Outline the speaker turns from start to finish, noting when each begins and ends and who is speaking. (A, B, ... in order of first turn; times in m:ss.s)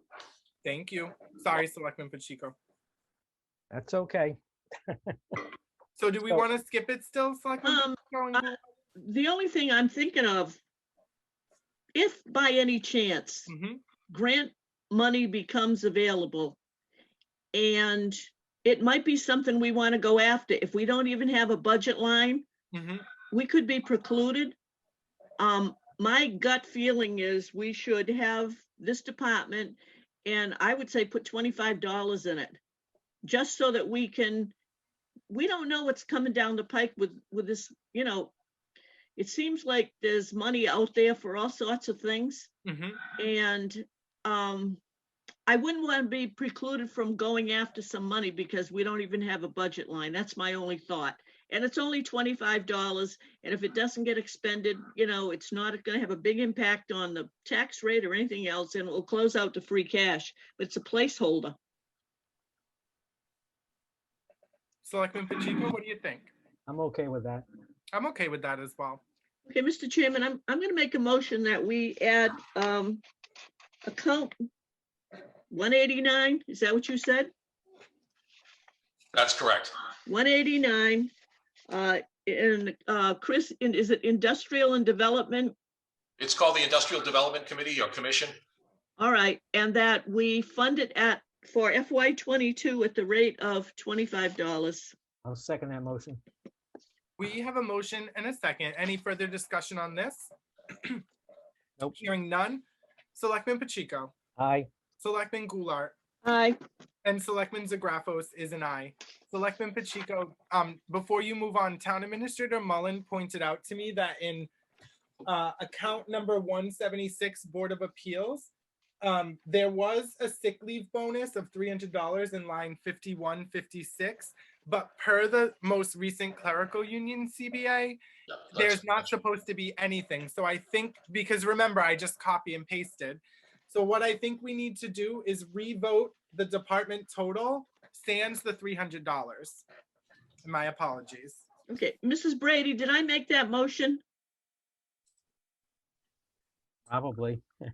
0:00.6-0:02.6 A
0:03.7-0:05.4 B
0:06.0-0:08.6 A
0:07.6-0:08.5 C
0:09.0-0:10.6 C
0:12.0-0:13.5 C
0:13.5-0:13.8 A
0:14.1-0:16.6 C
0:17.5-0:22.5 C
0:22.7-0:23.1 A
0:23.3-0:24.6 C
0:25.4-0:32.6 C
0:33.2-0:34.5 C
0:35.3-0:38.3 C
0:39.2-0:42.5 C
0:42.7-0:43.1 A
0:43.2-0:44.8 C
0:45.5-1:01.6 C
1:04.8-1:06.3 A
1:06.7-1:07.4 B
1:07.9-1:09.0 A
1:09.5-1:13.0 C
1:13.9-1:14.3 C
1:15.5-1:17.3 C
1:19.1-1:19.7 D
1:20.1-1:21.1 C
1:21.7-1:25.6 C
1:26.2-1:28.4 D
1:29.0-1:34.9 C
1:35.2-1:36.2 B
1:37.2-1:40.3 A
1:41.9-1:44.1 A
1:44.4-1:44.7 B
1:45.0-1:46.0 A
1:46.2-1:46.6 C
1:47.0-1:54.5 A
1:55.3-1:58.5 A
1:59.0-2:08.0 A
2:08.3-2:09.0 D
2:08.5-2:19.6 A
2:20.4-2:21.5 A
2:21.7-2:24.0 C
2:26.9-2:27.4 B